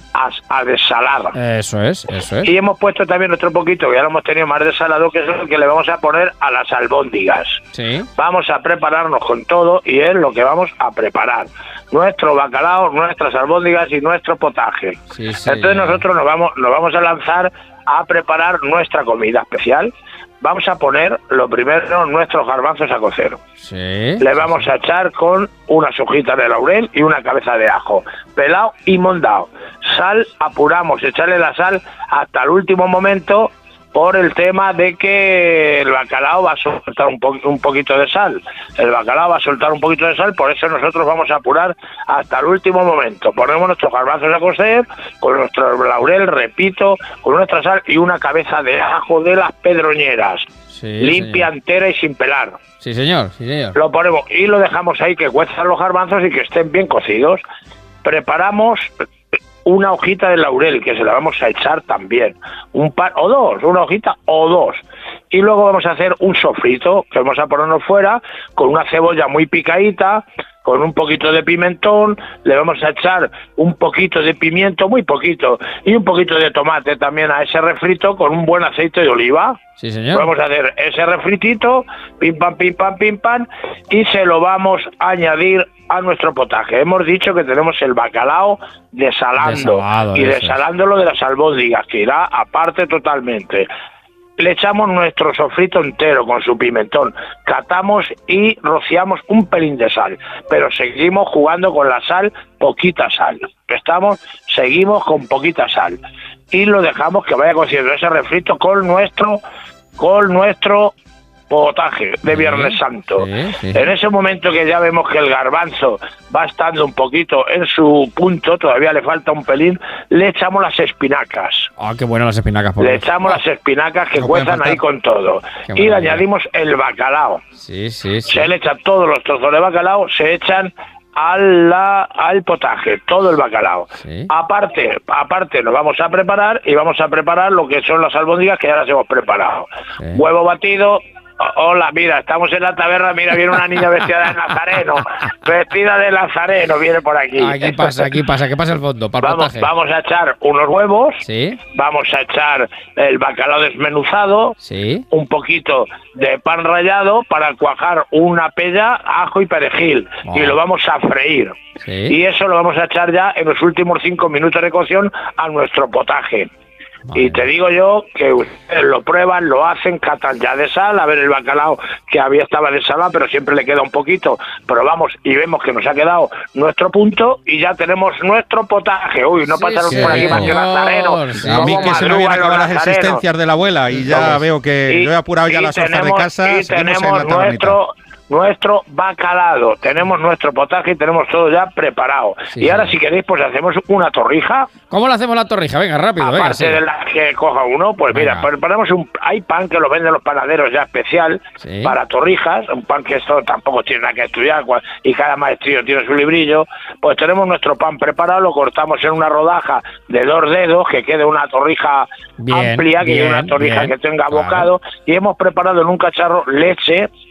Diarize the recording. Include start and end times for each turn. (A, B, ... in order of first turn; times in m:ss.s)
0:00.2-0:01.4 A
0:01.3-0:02.5 B
0:02.4-0:07.6 A
0:07.7-0:08.1 B
0:08.2-0:23.4 A
0:15.1-0:16.0 B
0:23.6-0:24.6 B
0:24.2-0:50.4 A
0:50.7-0:51.5 B
0:51.0-0:52.6 A
0:52.8-0:53.8 B
0:53.8-0:57.4 A
0:58.0-0:58.9 A
0:59.6-1:19.6 A
1:19.8-1:20.3 B
1:20.1-1:33.7 A
1:29.4-1:30.6 B
1:34.4-1:46.0 A
1:46.5-1:49.4 A
1:50.0-1:50.9 A
1:51.5-2:01.7 A
1:52.3-1:53.9 B
2:01.8-2:03.4 B
2:02.8-2:07.4 A
2:04.2-2:04.8 C
2:04.3-2:04.8 B
2:05.7-2:06.2 B
2:07.6-2:08.5 B
2:08.3-2:28.0 A
2:14.0-2:14.3 B
2:27.4-2:29.7 B
2:29.2-2:31.2 A
2:31.2-2:31.6 B
2:31.7-2:34.5 A
2:34.6-2:35.0 B
2:35.1-2:41.6 A
2:40.2-2:40.6 B
2:41.8-2:42.2 B
2:42.1-2:46.5 A
2:47.1-2:47.4 B
2:47.2-3:03.2 A
2:59.6-3:02.1 B
2:59.9-3:00.2 C
3:01.4-3:07.8 C
3:04.0-3:14.7 A
3:12.5-3:12.9 B
3:14.9-3:16.8 B
3:16.2-3:37.1 A
3:18.1-3:18.5 B
3:21.6-3:22.0 B
3:32.4-3:34.7 B